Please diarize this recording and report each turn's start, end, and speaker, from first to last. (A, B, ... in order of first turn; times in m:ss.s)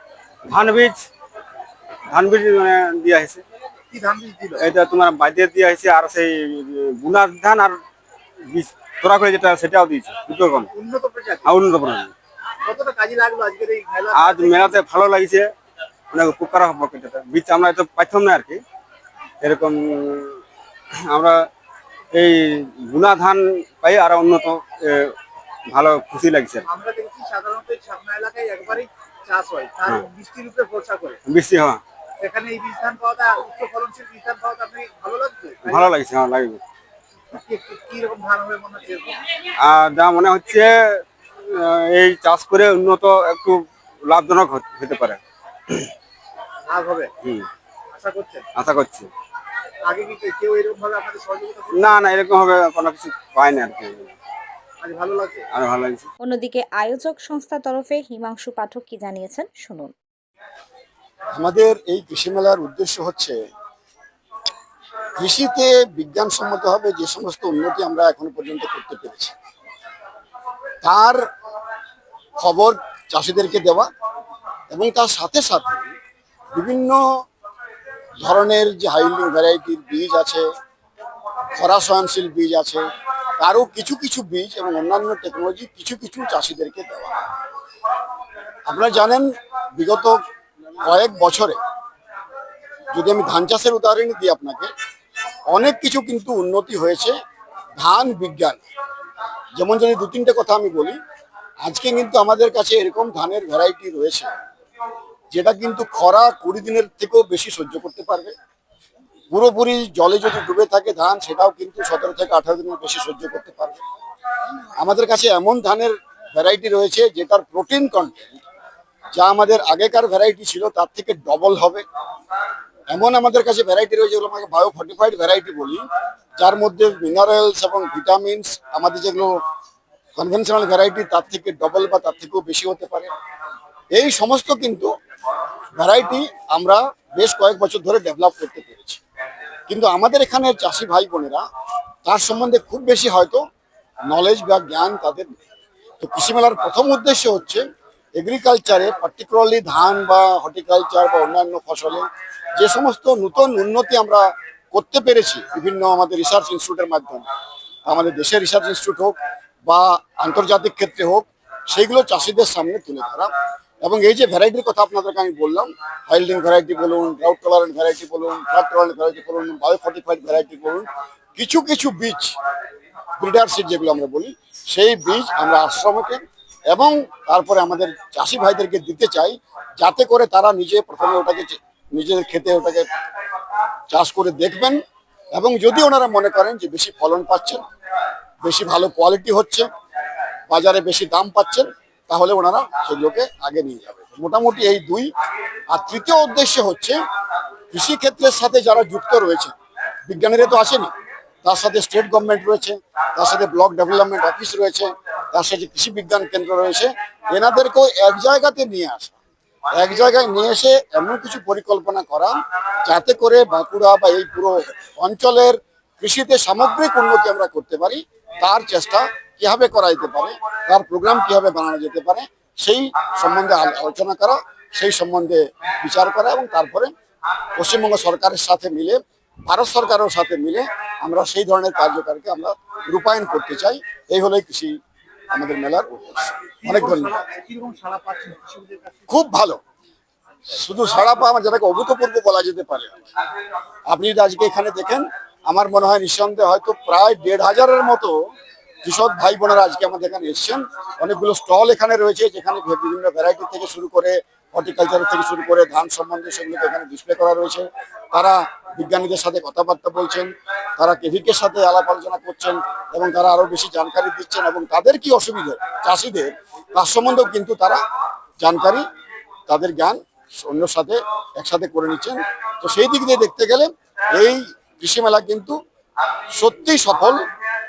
0:00.5-0:01.0 A
0:02.1-0:03.4 A
0:03.9-0:04.7 B
0:04.6-0:07.8 A
0:08.5-0:10.7 A
0:10.7-0:11.6 B
0:11.5-0:12.1 A
0:12.6-0:14.8 B
0:14.2-0:15.5 A
0:16.1-0:18.6 A
0:19.4-0:20.4 A
0:21.0-0:21.5 A
0:22.1-0:25.2 A
0:25.7-0:26.6 A
0:26.6-0:31.2 B
0:31.3-0:31.8 A
0:32.2-0:36.0 B
0:35.8-0:36.6 A
0:37.3-0:39.2 B
0:39.6-0:45.2 A
0:46.7-0:47.1 B
0:47.9-0:48.4 B
0:48.6-0:49.1 A
0:49.8-0:52.1 B
0:51.7-0:54.1 A
0:54.8-0:55.5 B
0:55.5-0:56.0 A
0:56.2-0:59.9 C
1:01.3-1:03.4 D
1:05.2-1:09.3 D
1:10.8-1:11.2 D
1:12.4-1:13.9 D
1:14.7-1:15.9 D
1:16.5-1:17.0 D
1:18.2-1:20.4 D
1:21.6-1:22.8 D
1:23.4-1:27.1 D
1:28.7-1:30.2 D
1:30.8-1:31.6 D
1:32.9-1:34.7 D
1:35.5-1:37.2 D
1:37.8-1:38.6 D
1:39.6-1:41.0 D
1:41.6-1:44.3 D
1:45.3-1:48.3 D
1:49.3-1:53.8 D
1:54.8-1:58.3 D
1:59.2-2:01.8 D
2:02.9-2:05.8 D
2:06.4-2:09.3 D
2:10.2-2:13.1 D
2:13.9-2:14.9 D
2:15.8-2:19.0 D
2:19.7-2:21.4 D
2:22.0-2:23.4 D
2:24.1-2:25.3 D
2:26.0-2:27.6 D
2:28.2-2:37.2 D
2:37.9-2:39.1 D
2:39.7-2:43.3 D
2:43.8-2:52.3 D
2:53.2-3:02.8 D
3:03.9-3:04.8 D
3:05.3-3:07.6 D
3:08.4-3:09.7 D
3:10.5-3:15.1 D
3:15.7-3:17.0 D
3:17.7-3:19.5 D
3:20.1-3:20.9 D
3:21.4-3:29.2 D
3:29.7-3:32.3 D
3:32.8-3:46.9 D
3:47.6-3:54.7 D
3:55.3-3:57.1 D
3:56.6-3:59.0 B
3:59.1-3:59.6 D
4:00.5-4:03.0 D
4:03.9-4:08.1 D
4:08.8-4:27.8 D
4:28.4-4:28.8 D
4:29.5-4:35.6 D
4:36.4-4:37.2 D